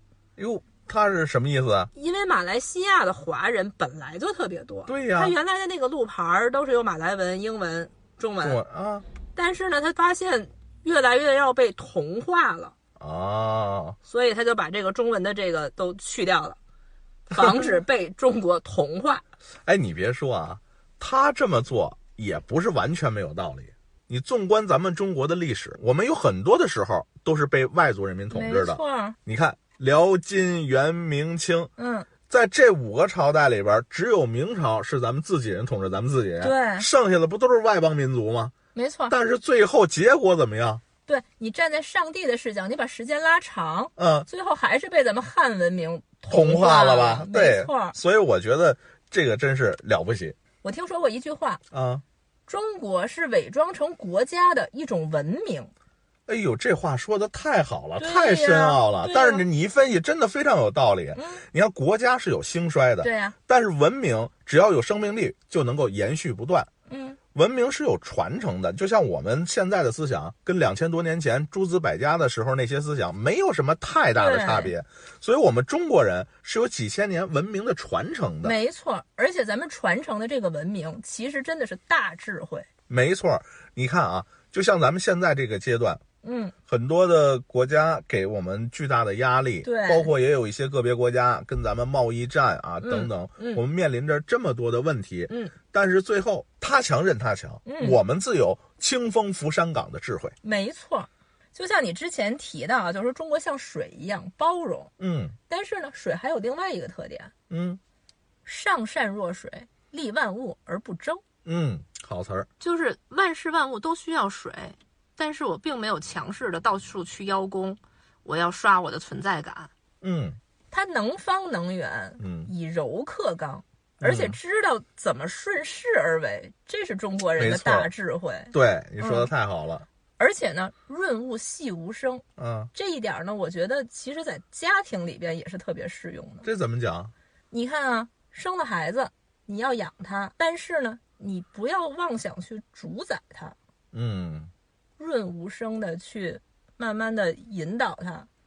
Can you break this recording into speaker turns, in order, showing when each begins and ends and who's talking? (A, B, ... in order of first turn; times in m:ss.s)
0:00.4-0:01.9 A
0:01.9-0:08.6 B
0:04.9-0:05.4 A
0:08.4-0:09.1 A
0:09.3-0:12.8 B
0:13.0-0:14.0 A
0:14.1-0:16.6 B
0:17.3-0:19.2 B
0:19.6-0:31.7 A
0:28.3-0:29.2 B
0:31.8-0:32.1 B
0:32.3-0:38.5 A
0:36.4-0:36.9 B
0:38.7-0:39.1 B
0:39.1-0:40.8 A
0:41.0-0:48.0 B
0:44.0-0:44.3 A
0:46.3-0:50.3 A
0:50.6-0:51.6 B
0:51.7-0:52.0 A
0:52.5-0:55.7 B
0:56.3-1:06.7 A
0:58.0-0:59.4 B
1:01.1-1:01.4 B
1:03.0-1:03.4 B
1:06.9-1:07.2 B
1:07.3-1:18.5 A
1:14.1-1:14.8 B
1:18.4-1:22.7 B
1:22.9-1:26.0 A
1:26.2-1:26.5 B
1:26.7-1:40.3 A
1:29.6-1:30.1 B
1:32.8-1:33.6 B
1:35.3-1:35.5 B
1:37.6-1:38.0 B
1:40.4-1:44.9 B
1:45.0-1:45.4 A
1:45.5-1:47.3 B
1:47.5-1:47.8 A
1:48.4-1:51.2 B
1:51.4-1:52.5 A
1:52.6-1:59.7 B
2:00.0-2:00.4 A
2:00.7-2:09.3 B
2:02.2-2:02.5 A
2:04.0-2:04.4 A
2:07.4-2:07.9 A
2:08.5-2:09.8 A
2:10.2-2:16.5 B
2:12.4-2:12.7 A
2:16.4-2:17.1 A
2:17.5-2:23.6 B
2:23.9-2:24.5 A
2:25.0-2:28.3 B